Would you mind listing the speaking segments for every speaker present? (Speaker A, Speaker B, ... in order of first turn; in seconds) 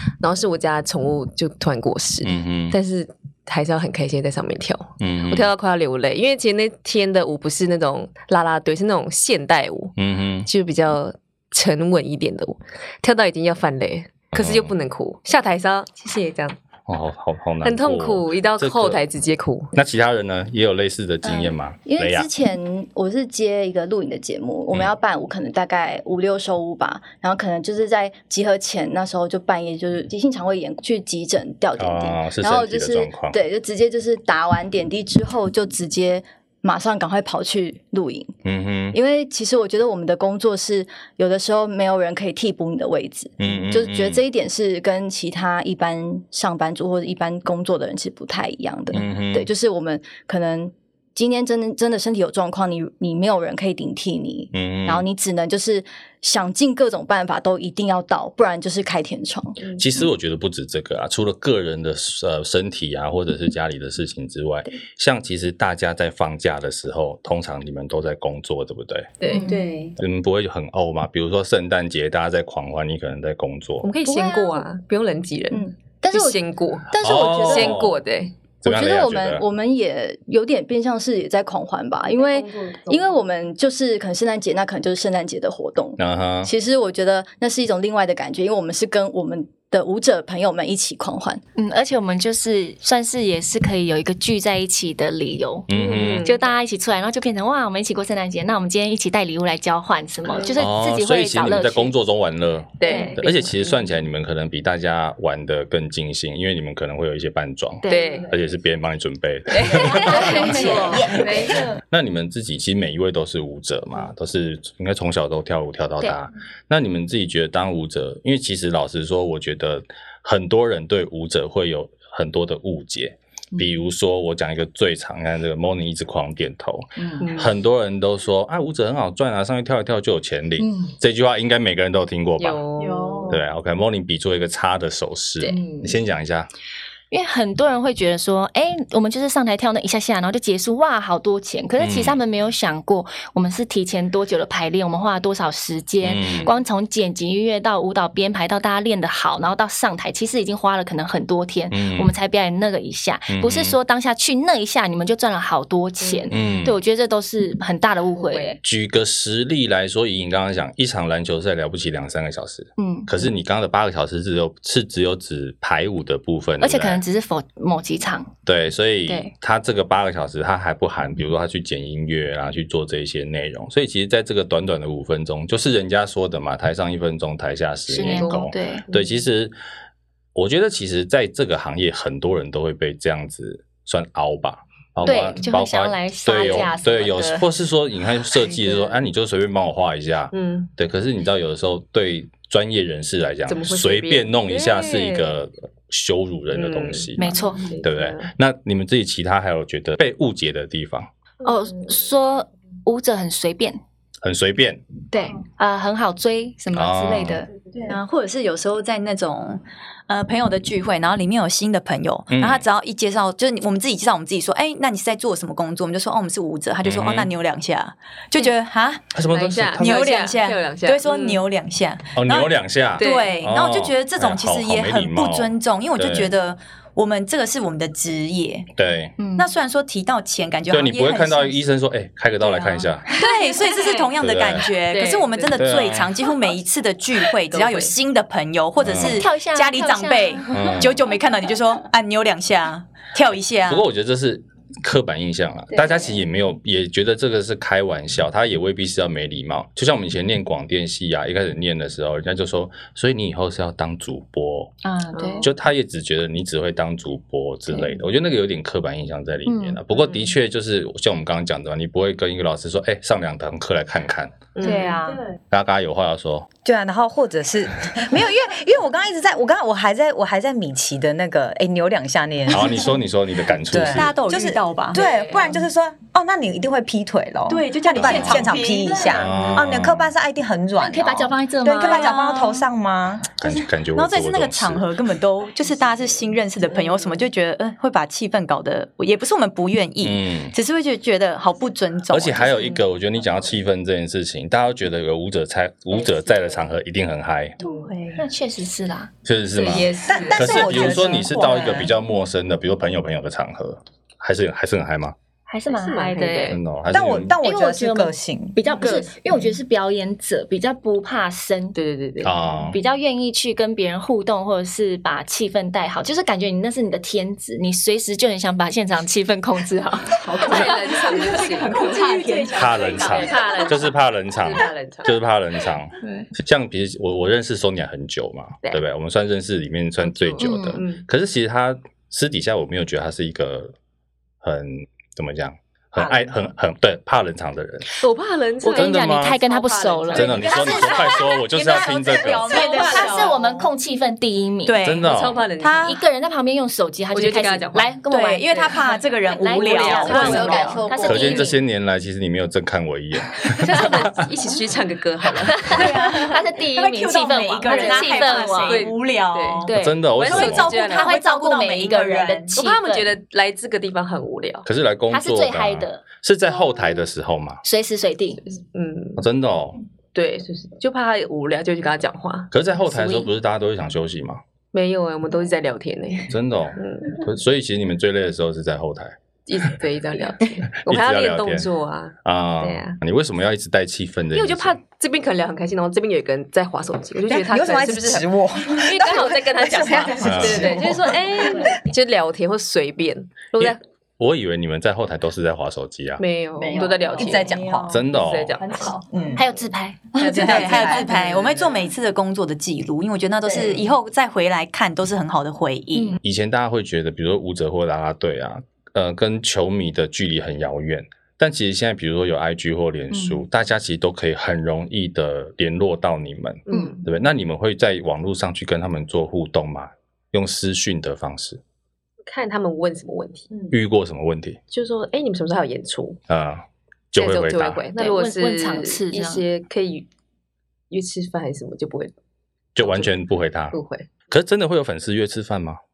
Speaker A: 0.2-16.6, 17.6-19.7, 69.2-69.7, 73.8-78.3, 82.1-83.2, 95.7-96.5, 102.8-103.3, 107.9-108.3, 109.5-111.7, 127.2-127.5, 132.4-133.4, 146.2-146.5, 156.0-156.3, 158.2-158.6, 178.0-179.2, 185.1-185.4, 190.3-190.7, 193.5-195.3, 196.5-198.3, 219.3-221.4, 223.0-223.4, 237.5-237.9, 255.1-255.5, 260.0-260.3, 264.6-265.2, 274.9-275.6, 295.9-296.7, 297.6-298.1, 299.6-301.1, 305.7-306.6, 308.7-309.0, 311.8-312.5, 320.3-325.1, 330.0-331.0, 336.0-336.3, 338.0-340.9, 342.5-343.3, 345.1-346.0, 347.1-348.0, 349.6-350.8, 353.5-356.2, 357.7-361.2, 362.5-364.7, 368.4-369.2, 370.1-372.5, 374.7-377.2, 379.5-383.0, 384.3-393.8, 396.2-399.0, 400.2-401.5, 416.7-417.0, 422.3-423.7, 424.7-426.2, 427.2-430.1, 430.9-432.1, 432.8-434.1
Speaker B: 2.2-2.8, 5.0-5.5, 10.0-10.5, 14.3-14.7, 16.9-19.0, 19.8-22.3, 31.8-33.4, 38.5-39.0, 43.4-44.2, 48.9-49.5, 54.5-55.0, 59.8-69.2, 70.0-73.9, 76.9-78.0, 78.6-79.5, 86.0-86.5, 95.7-96.3, 100.6-132.6, 133.3-136.5, 141.8-142.2, 146.0-146.5, 151.7-152.1, 153.3-153.8, 156.3-156.8, 158.6-167.0, 168.4-179.6, 180.3-201.1, 204.2-204.8, 206.7-207.4, 212.3-212.6, 216.8-217.3, 219.1-220.1, 222.2-226.3, 228.8-229.2, 230.7-233.1, 234.2-234.7, 235.6-236.1, 238.8-239.2, 240.5-241.0, 243.7-254.7, 255.4-264.4, 265.5-266.5, 272.5-274.2, 277.9-278.5, 279.1-280.1, 283.4-284.9, 290.0-290.6, 292.1-297.6, 299.2-305.1, 306.5-307.4, 312.2-312.8, 322.5-333.8, 334.4-337.9, 338.7-339.4, 340.1-342.6, 344.8-345.4, 350.2-350.4, 351.0-354.1, 359.8-360.8, 364.6-367.6, 369.2-369.8, 372.5-374.4, 376.3-379.2, 380.8-381.7, 382.2-384.8, 390.2-390.8, 393.6-396.2, 397.9-398.6, 406.2-421.6, 423.7-424.6, 426.3-427.8, 432.8-433.8, 434.3-435.8
Speaker C: 21.2-38.3, 38.9-59.8, 69.3-70.0, 74.0-74.7, 75.5-77.9, 78.7-91.4, 127.0-127.3, 132.9-133.3, 308.8-309.1, 349.6-351.5, 396.6-397.6
Speaker D: 69.3-69.6, 91.6-95.7, 96.2-102.0, 102.8-103.2, 107.8-108.3, 109.6-111.2, 135.4-135.9, 137.1-158.6, 162.8-163.1, 166.6-168.3, 169.1-169.3, 177.9-178.8, 185.0-187.5, 197.2-197.8, 201.4-203.8, 205.1-207.5, 229.2-229.5, 234.9-235.3, 239.0-240.7, 254.8-255.5, 259.5-259.8, 264.6-265.3, 280.8-282.2, 297.6-299.1, 305.5-306.6, 307.4-311.8, 312.7-321.4, 323.3-323.6, 326.0-326.3, 330.4-330.8, 338.6-341.1, 342.5-344.8, 345.9-351.6, 355.4-358.9, 359.6-363.1, 365.1-366.0, 367.6-368.4, 372.9-373.2, 399.4-400.2, 428.0-429.5
Speaker E: 110.4-111.7, 266.6-272.9, 273.7-283.4, 300.0-301.9, 306.9-308.6, 387.3-391.7, 397.2-397.9, 399.1-399.4, 400.2-401.1
Speaker F: 207.8-219.1, 219.8-228.7, 229.4-231.6, 233.1-243.9, 273.8-275.0, 277.5-279.5, 281.8-282.6, 283.9-292.7, 320.3-323.7, 340.2-343.7, 344.6-346.0, 348.1-350.9, 355.7-359.7, 360.3-362.6, 400.2-406.2